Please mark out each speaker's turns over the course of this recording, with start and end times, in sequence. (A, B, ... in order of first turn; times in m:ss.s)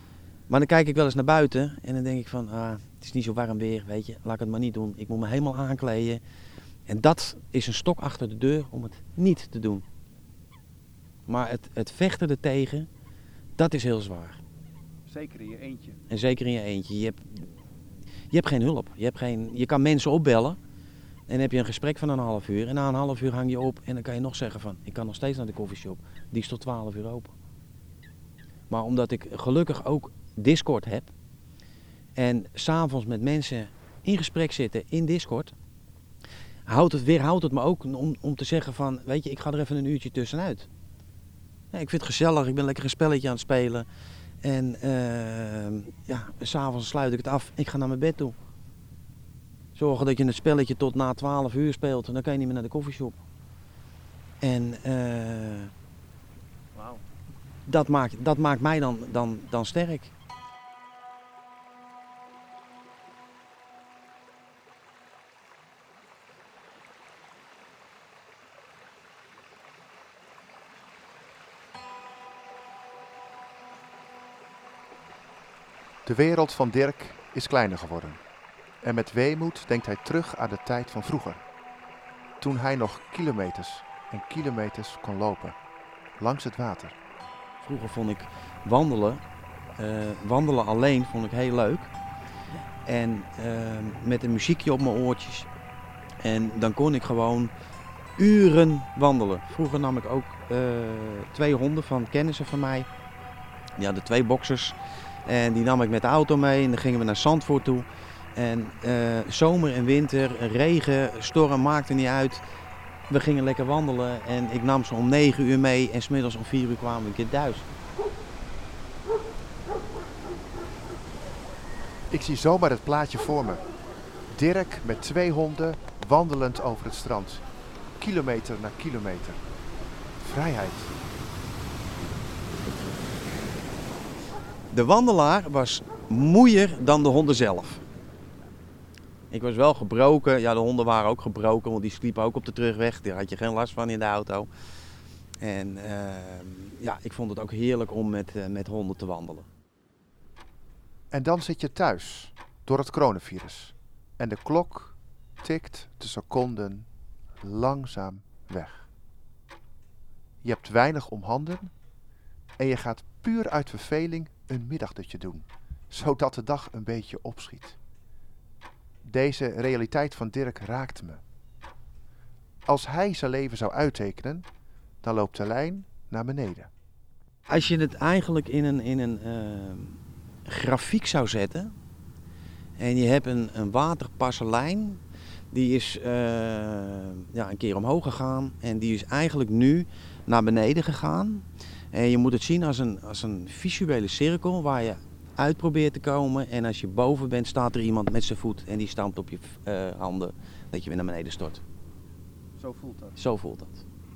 0:00.5-0:06.2 A
0:06.9-0:09.8 A
0:11.3-0:12.9 A
0:13.6-0:14.4 A
0:15.1-0:16.0 B
0:16.1-0:17.5 A
0:18.3-0:20.6 A
0:21.3-0:27.3 A
0:28.7-0:31.1 A
0:32.2-0:35.5 A
0:36.7-0:40.7 A
0:41.7-0:43.9 A
0:44.4-0:48.4 A
0:49.8-0:53.2 A
0:54.4-0:55.7 A
0:57.7-1:00.1 A
1:16.1-1:18.2 B
1:18.8-1:21.4 B
1:22.4-1:25.6 B
1:26.2-1:27.0 B
1:27.6-1:29.2 A
1:29.8-1:31.9 A
1:32.9-1:35.5 A
1:36.2-1:37.5 A
1:38.2-1:42.9 A
1:43.8-1:52.4 A
1:53.1-1:57.7 A
2:02.1-2:03.6 B
2:04.3-2:07.4 B
2:08.0-2:09.4 B
2:10.2-2:11.0 B
2:14.7-2:17.8 A
2:19.3-2:24.5 A
2:25.4-2:29.5 A
2:31.1-2:36.9 B
2:37.4-2:38.9 B
2:40.4-2:41.7 B
2:42.6-2:47.8 B
2:49.1-2:51.2 B
2:52.7-2:54.4 B
2:55.0-2:56.7 B
2:57.5-3:01.7 A
3:02.8-3:05.0 A
3:05.5-3:21.6 A
3:22.6-3:23.2 B
3:23.2-3:23.8 A